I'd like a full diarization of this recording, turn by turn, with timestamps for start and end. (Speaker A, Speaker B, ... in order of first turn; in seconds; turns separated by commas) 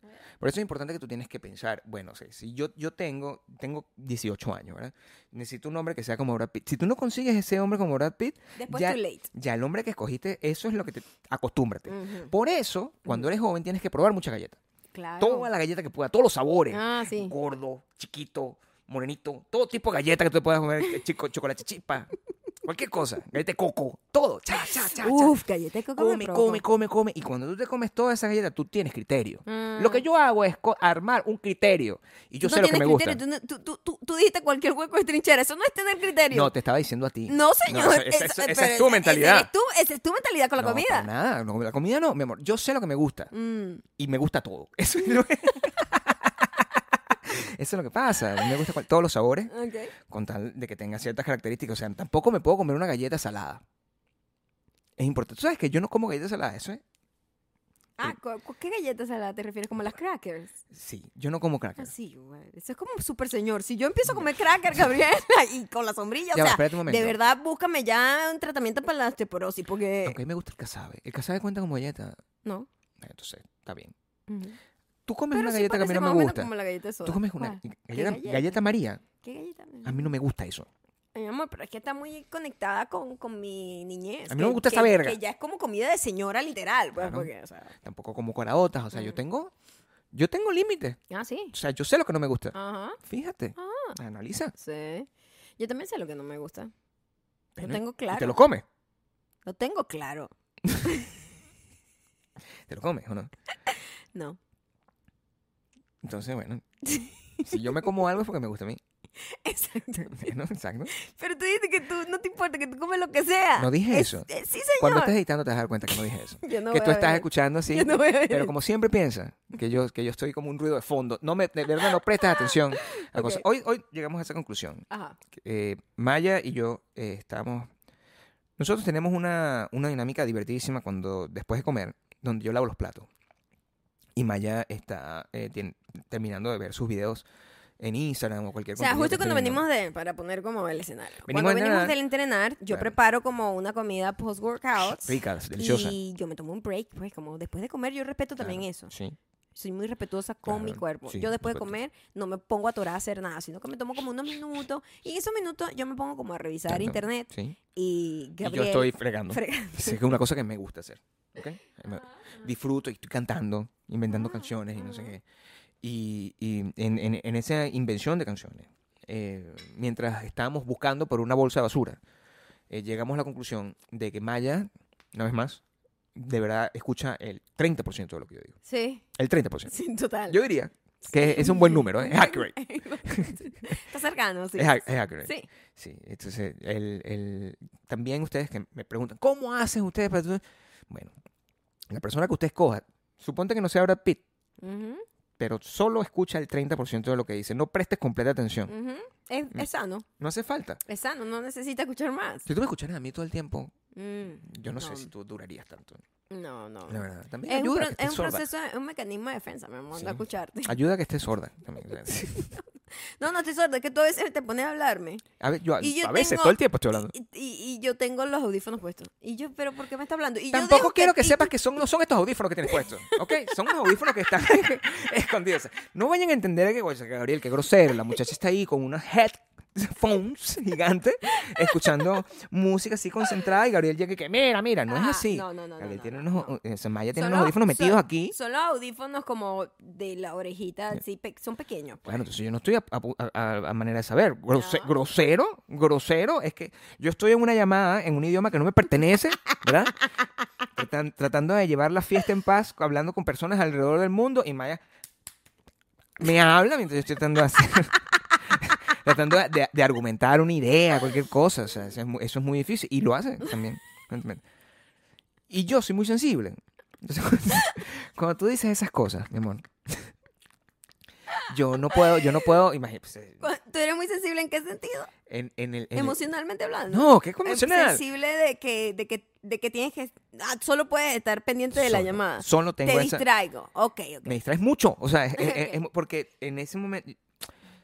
Speaker A: 0.4-14.6, Speaker B: 8.6-9.3, Speaker B: 11.9-12.3, Speaker B: 14.9-15.5, Speaker A: 15.2-22.1, Speaker B: 16.7-17.3, Speaker A: 22.6-25.4, Speaker B: 24.9-26.6, Speaker A: 25.9-33.2, Speaker B: 29.4-30.0, Speaker B: 32.4-36.5, Speaker A: 36.3-39.5, Speaker B: 37.3-41.1, Speaker A: 40.6-43.3, Speaker B: 43.3-43.8, Speaker A: 44.0-49.5, Speaker B: 49.5-49.9, Speaker A: 50.1-53.6, Speaker A: 55.0-56.8, Speaker B: 58.0-60.6, Speaker A: 60.7-61.9, Speaker B: 61.8-70.2, Speaker A: 66.3-67.2, Speaker A: 70.0-72.2, Speaker A: 73.0-73.9, Speaker B: 74.3-74.5, Speaker A: 75.1-76.5, Speaker B: 75.3-78.6, Speaker A: 77.0-79.0, Speaker B: 79.2-80.1, Speaker A: 79.8-80.7, Speaker B: 81.1-87.7, Speaker A: 84.3-85.2, Speaker A: 86.9-87.3, Speaker A: 87.8-89.5, Speaker B: 88.9-89.2, Speaker A: 90.1-91.0, Speaker B: 91.1-91.5, Speaker A: 91.5-94.5, Speaker B: 92.5-93.0, Speaker B: 93.5-94.0, Speaker B: 94.6-95.1, Speaker B: 95.6-96.7, Speaker A: 97.5-98.6, Speaker B: 97.6-98.4, Speaker B: 99.5-101.1, Speaker A: 102.7-103.3, Speaker B: 103.7-104.4, Speaker A: 106.0-106.6, Speaker B: 106.8-107.6, Speaker A: 107.5-108.8, Speaker B: 109.3-110.3, Speaker A: 110.0-110.9, Speaker B: 110.9-115.1, Speaker A: 113.6-127.7, Speaker B: 115.9-118.5, Speaker B: 122.2-123.4, Speaker B: 124.9-125.2, Speaker A: 128.6-133.1, Speaker A: 134.2-137.2, Speaker A: 137.8-139.6, Speaker B: 138.8-148.9, Speaker A: 141.2-142.0, Speaker A: 142.7-142.9, Speaker A: 144.9-146.0, Speaker A: 148.4-149.2, Speaker B: 149.6-160.1, Speaker A: 150.4-151.8, Speaker A: 156.7-157.6, Speaker A: 158.4-165.2, Speaker B: 164.1-165.1, Speaker A: 165.8-172.0, Speaker A: 172.7-175.6, Speaker A: 176.1-178.6, Speaker B: 178.7-179.0, Speaker A: 179.2-179.7, Speaker B: 179.7-180.4, Speaker A: 180.3-183.7, Speaker B: 181.0-185.5, Speaker A: 184.6-191.1, Speaker A: 191.9-194.2, Speaker B: 194.6-195.0, Speaker A: 195.4-198.7, Speaker B: 198.7-200.1, Speaker A: 200.2-200.8, Speaker B: 200.8-202.5, Speaker A: 202.4-203.7, Speaker B: 203.9-205.1, Speaker A: 204.4-206.0, Speaker B: 206.3-210.8, Speaker A: 206.9-208.4, Speaker A: 209.9-212.5, Speaker B: 212.3-212.6, Speaker B: 213.2-215.2, Speaker A: 215.4-217.1, Speaker B: 215.8-221.5, Speaker A: 220.5-238.3, Speaker B: 222.7-223.9, Speaker B: 231.3-231.8, Speaker B: 234.9-236.5, Speaker B: 237.1-242.0, Speaker A: 242.1-250.0, Speaker B: 244.5-244.9, Speaker A: 250.7-254.8, Speaker A: 256.2-264.4, Speaker A: 265.5-270.1, Speaker A: 271.5-273.4, Speaker B: 271.9-272.3, Speaker B: 273.4-275.1, Speaker A: 275.3-276.2, Speaker B: 275.9-284.4, Speaker A: 276.9-278.0, Speaker A: 281.7-283.2, Speaker A: 284.2-287.2, Speaker B: 285.4-285.8